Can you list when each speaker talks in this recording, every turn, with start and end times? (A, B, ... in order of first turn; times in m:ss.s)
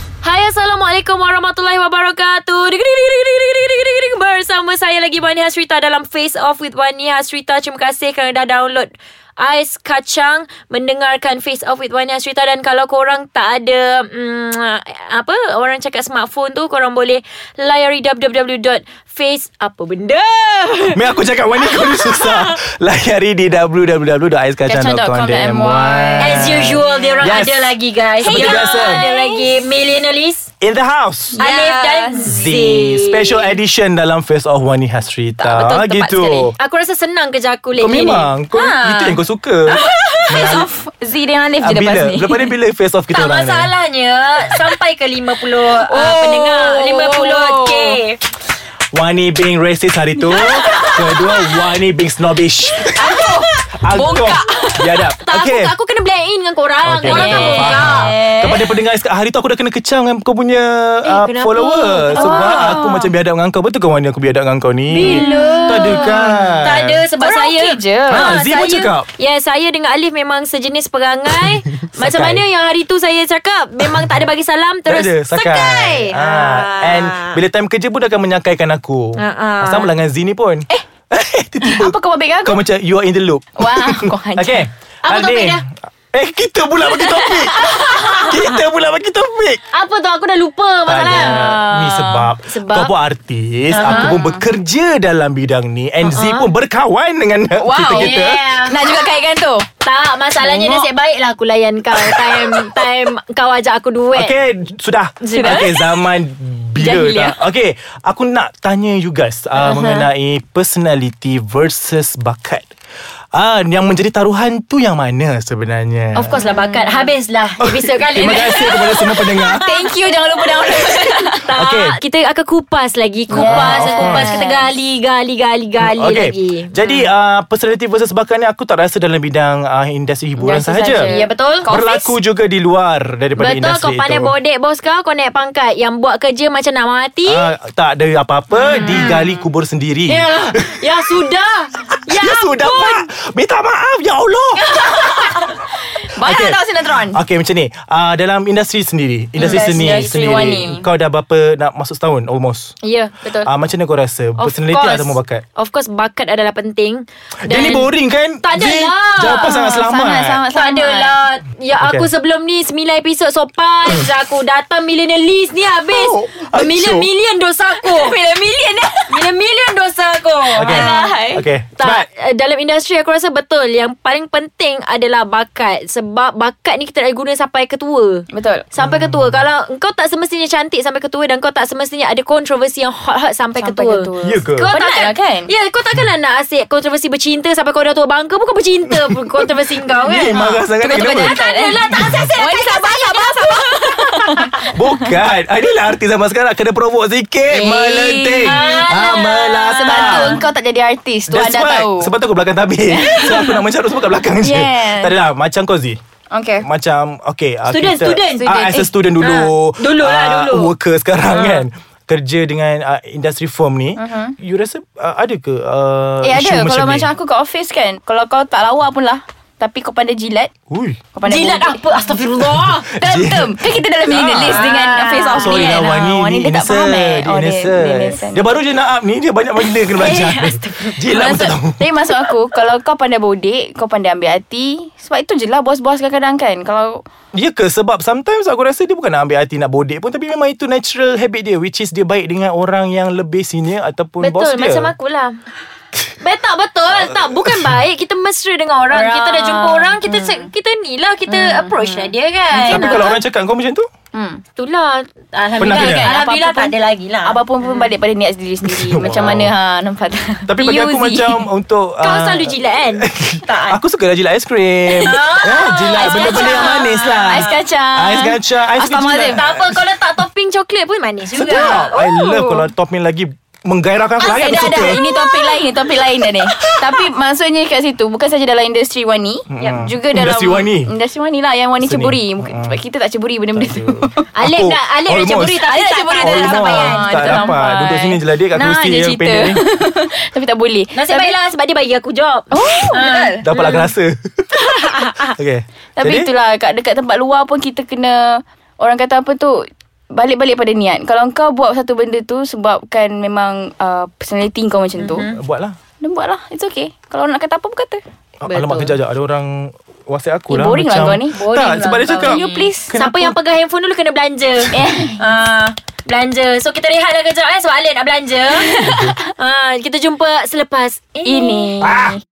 0:00.2-0:22.6 A
0:20.9-0:27.8 B
0:24.7-0:26.6 C
0:26.2-0:30.5 A
0:28.2-0:29.6 C
0:28.2-0:29.0 B
0:30.6-0:31.4 B
0:31.4-0:33.5 A
0:31.4-0:32.5 C
0:32.2-0:36.5 B
0:35.4-0:38.3 A
0:37.8-0:40.7 B
0:38.5-0:39.2 C
0:39.7-0:40.2 A
0:39.8-0:42.6 C
0:41.6-0:43.7 B
0:43.1-0:48.2 A
0:45.6-0:48.0 C
0:48.9-0:55.7 B
0:50.3-0:50.9 C
0:50.5-0:51.3 A
0:52.9-0:55.1 C
0:53.9-0:54.4 A
0:55.2-0:58.1 A
0:56.8-1:07.0 B
0:57.0-0:58.8 C
1:01.0-1:02.8 A
1:02.1-1:03.1 C
1:04.9-1:17.4 A
1:05.0-1:06.7 C
1:07.2-1:08.4 C
1:08.1-1:09.1 B
1:11.4-1:12.4 B
1:14.9-1:29.6 B
1:19.2-1:20.0 A
1:21.6-1:22.6 C
1:23.6-1:24.7 C
1:25.0-1:25.6 A
1:27.0-1:28.6 A
1:29.7-1:31.6 A
1:30.9-1:38.5 B
1:31.1-1:32.3 C
1:32.4-1:32.9 A
1:33.7-1:34.1 A
1:33.8-1:34.4 C
1:36.1-1:36.5 A
1:37.6-1:39.7 C
1:37.8-1:38.8 A
1:39.8-1:44.4 A
1:40.4-1:40.9 C
1:42.1-1:42.6 B
1:44.1-1:52.7 B
1:45.2-1:45.8 A
1:45.3-1:45.9 C
1:46.8-1:47.4 C
1:49.6-1:50.1 A
1:53.3-1:56.4 B
1:56.1-1:58.7 A
1:56.3-1:57.1 C
1:57.6-1:59.7 B
1:58.3-2:01.5 C
2:01.3-2:06.9 A
2:01.6-2:02.0 B
2:03.3-2:04.3 B
2:03.3-2:04.7 C
2:05.8-2:11.1 B
2:10.4-2:12.1 C
2:11.0-2:11.7 A
2:11.7-2:14.3 B
2:13.4-2:17.5 A
2:17.3-2:20.8 B
2:18.6-2:19.4 C
2:18.6-2:19.2 A
2:20.1-2:23.1 A
2:22.1-2:24.8 B
2:24.6-2:27.2 C
2:26.2-2:32.8 B
2:29.4-2:30.8 A
2:29.4-2:30.9 C
2:32.8-2:33.1 A
2:33.2-2:33.5 C
2:33.4-2:35.4 B
2:34.4-2:37.9 A
2:37.5-2:40.4 B
2:38.4-2:39.5 A
2:39.3-2:41.2 C
2:40.5-2:48.2 A
2:41.8-2:42.1 B
2:45.9-2:47.1 B
2:47.7-2:49.3 C
2:49.1-3:14.6 A
2:50.5-2:52.1 B
2:50.6-2:51.5 C
2:58.3-2:58.7 C
2:58.8-2:59.4 B
3:03.6-3:05.5 C
3:04.2-3:04.7 B
3:08.9-3:09.4 B
3:10.0-3:11.4 B
3:10.3-3:14.7 C
3:12.0-3:12.3 B
3:14.7-3:20.4 B
3:17.5-3:18.9 C
3:18.4-3:20.4 A
3:19.7-3:22.1 C
3:21.3-3:26.0 B
3:22.9-3:23.6 C
3:24.3-3:25.2 C
3:26.3-3:26.7 C
3:26.6-3:37.1 B
3:27.7-3:28.5 A
3:28.4-3:28.9 C
3:29.2-3:30.7 A
3:31.3-3:31.7 A
3:34.0-3:34.3 C
3:36.2-3:40.5 C
3:40.7-3:41.0 B
3:41.1-3:41.8 C
3:41.2-3:42.9 A
3:42.4-3:44.7 B
3:42.9-3:48.6 C
3:44.4-3:45.9 A
3:45.3-3:51.9 B
3:49.6-3:51.1 A
3:51.1-3:57.0 C
3:57.3-4:04.9 B
4:04.2-4:05.3 A
4:06.2-4:13.2 A
4:07.1-4:07.8 B
4:08.9-4:10.5 C
4:11.3-4:13.2 C
4:12.7-4:13.9 B
4:14.1-4:14.4 C
4:14.6-4:17.9 A
4:15.6-4:16.1 B
4:15.8-4:21.4 C
4:18.8-4:19.2 A
4:18.8-4:19.5 B
4:20.5-4:29.8 B
4:22.0-4:23.8 A
4:24.9-4:27.6 A
4:26.0-4:29.5 C
4:29.3-4:32.1 A
4:31.3-4:35.1 B
4:31.4-4:32.7 C
4:34.2-4:44.3 C
4:34.2-4:35.4 A
4:36.6-4:37.0 B
4:39.5-4:40.9 B
4:39.6-4:39.8 A
4:41.8-4:42.8 B
4:43.5-4:45.6 B
4:44.3-4:47.5 A
4:45.6-4:51.3 C
4:46.2-4:49.6 B
4:50.9-4:53.9 A
4:52.5-4:53.5 C
4:53.4-4:54.2 B
4:54.6-4:55.3 A
4:55.2-4:56.3 B
4:56.0-5:05.3 C
5:05.0-5:05.4 A
5:05.3-5:05.8 B
5:06.0-5:08.0 C
5:08.4-5:13.3 B
5:08.4-5:09.0 A
5:10.5-5:11.4 C
5:11.3-5:21.8 A
5:12.2-5:12.9 C
5:14.7-5:15.2 C
5:18.6-5:19.1 C
5:18.8-5:19.1 B
5:21.2-5:22.2 C
5:21.8-5:22.2 B